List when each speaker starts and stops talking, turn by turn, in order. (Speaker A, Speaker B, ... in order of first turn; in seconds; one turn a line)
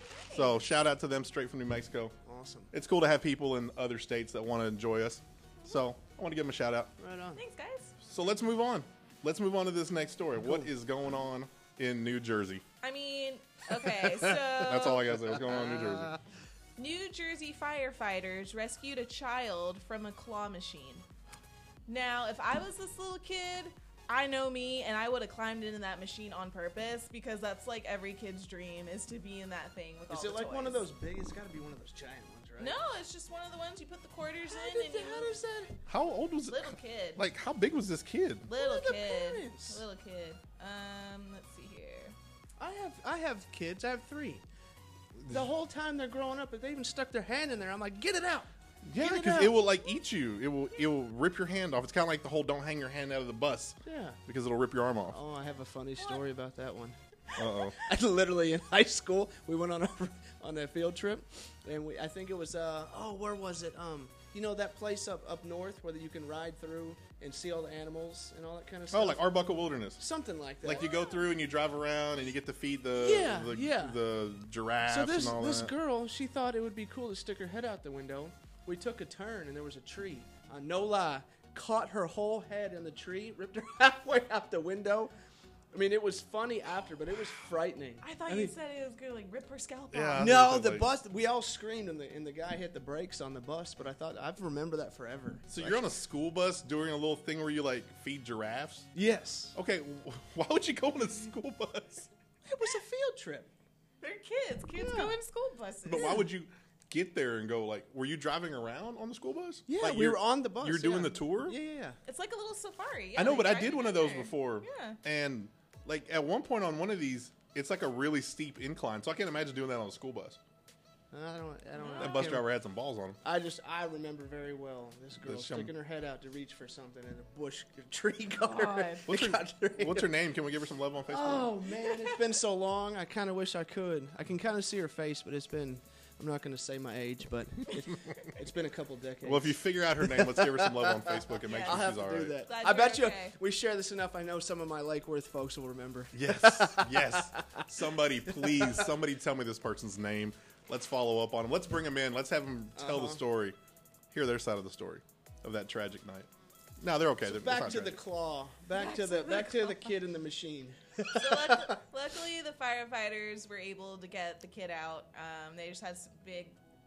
Speaker A: 0.2-0.6
Speaker B: 0.3-2.1
Speaker C: 2.2-2.7
Speaker B: 2.7-6.9
Speaker C: 7.0-7.4
Speaker A: 7.3-8.0
Speaker B: 8.0-12.6
Speaker C: 10.4-10.7
Speaker A: 12.8-15.2
Speaker B: 14.6-16.1
Speaker C: 15.4-16.2
Speaker A: 16.8-21.1
Speaker A: 21.9-30.9
Speaker C: 30.1-32.8
Speaker A: 32.6-35.4
Speaker C: 34.5-35.8
Speaker B: 35.9-38.5
Speaker A: 36.5-37.3
Speaker A: 38.5-42.1
Speaker C: 38.5-39.8
Speaker C: 42.6-44.4
Speaker C: 45.2-49.6
Speaker B: 48.9-55.2
Speaker C: 53.9-54.2
Speaker C: 55.1-57.0
Speaker B: 57.4-57.8
Speaker C: 57.8-69.3
Speaker B: 68.9-70.0
Speaker C: 70.0-70.9
Speaker B: 70.6-75.7
Speaker A: 70.8-71.2
Speaker C: 73.0-74.0
Speaker C: 74.8-85.1
Speaker C: 85.7-88.5
Speaker A: 88.0-90.3
Speaker B: 89.9-90.9
Speaker C: 90.2-95.9
Speaker B: 95.5-98.9
Speaker C: 99.0-99.6
Speaker B: 99.5-102.1
Speaker C: 102.5-103.5
Speaker A: 104.0-106.3
Speaker C: 104.8-105.2
Speaker B: 105.9-111.6
Speaker C: 109.7-112.0
Speaker A: 112.0-115.0
Speaker B: 113.2-120.4
Speaker C: 121.1-122.5
Speaker A: 121.8-122.4
Speaker B: 122.0-123.2
Speaker C: 123.2-130.1
Speaker B: 125.3-125.7
Speaker A: 128.4-129.1
Speaker B: 129.1-131.6
Speaker C: 131.1-148.9
Speaker B: 139.2-142.4
Speaker A: 141.4-141.9
Speaker A: 142.5-143.3
Speaker B: 146.1-153.6
Speaker C: 152.8-153.2
Speaker B: 154.1-156.3
Speaker B: 156.8-158.0
Speaker C: 157.3-161.8
Speaker A: 158.8-159.9
Speaker A: 161.1-166.6